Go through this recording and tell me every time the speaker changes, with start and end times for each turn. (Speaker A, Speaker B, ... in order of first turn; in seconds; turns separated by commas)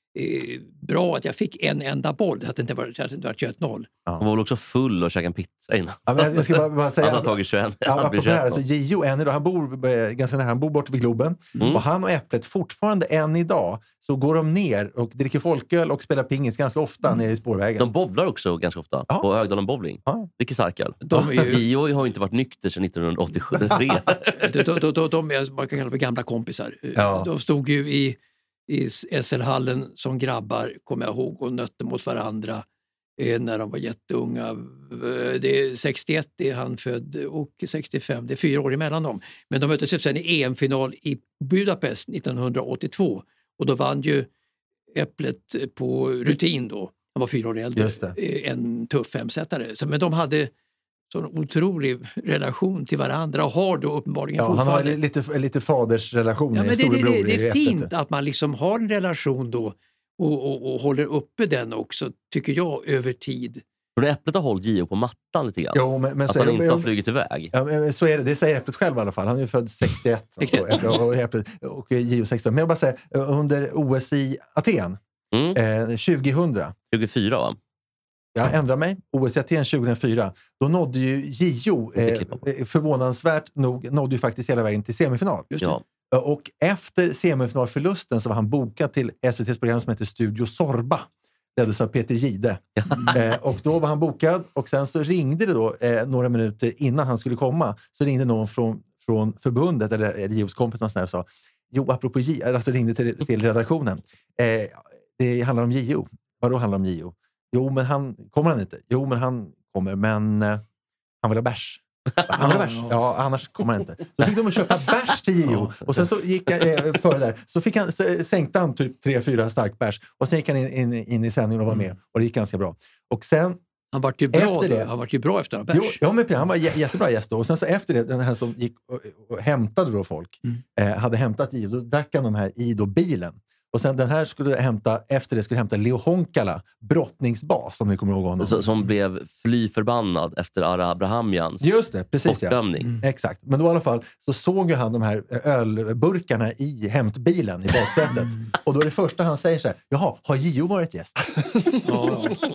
Speaker A: 0.1-3.9, Speaker B: 4.2-8.6, Speaker C: 6.1-17.9, Speaker B: 17.8-24.4, Speaker A: 21.0-21.6, Speaker C: 21.1-21.4, Speaker A: 24.4-32.6, Speaker C: 26.9-27.3, Speaker A: 33.2-44.3, Speaker A: 44.9-50.5, Speaker C: 47.7-48.1, Speaker A: 51.1-55.0, Speaker C: 54.4-57.9, Speaker A: 56.5-63.6, Speaker B: 64.0-67.5, Speaker C: 65.7-66.9, Speaker C: 67.5-75.0, Speaker A: 70.4-70.8, Speaker B: 75.3-75.6, Speaker C: 75.5-76.7, Speaker B: 76.9-77.6, Speaker C: 78.3-85.5, Speaker B: 82.0-82.4, Speaker A: 85.5-85.8, Speaker C: 86.1-110.6, Speaker C: 111.2-123.6, Speaker A: 112.4-112.9, Speaker A: 123.9-126.0, Speaker C: 124.3-124.9, Speaker C: 125.7-138.7, Speaker B: 138.4-142.9, Speaker C: 141.6-151.8, Speaker A: 151.8-152.4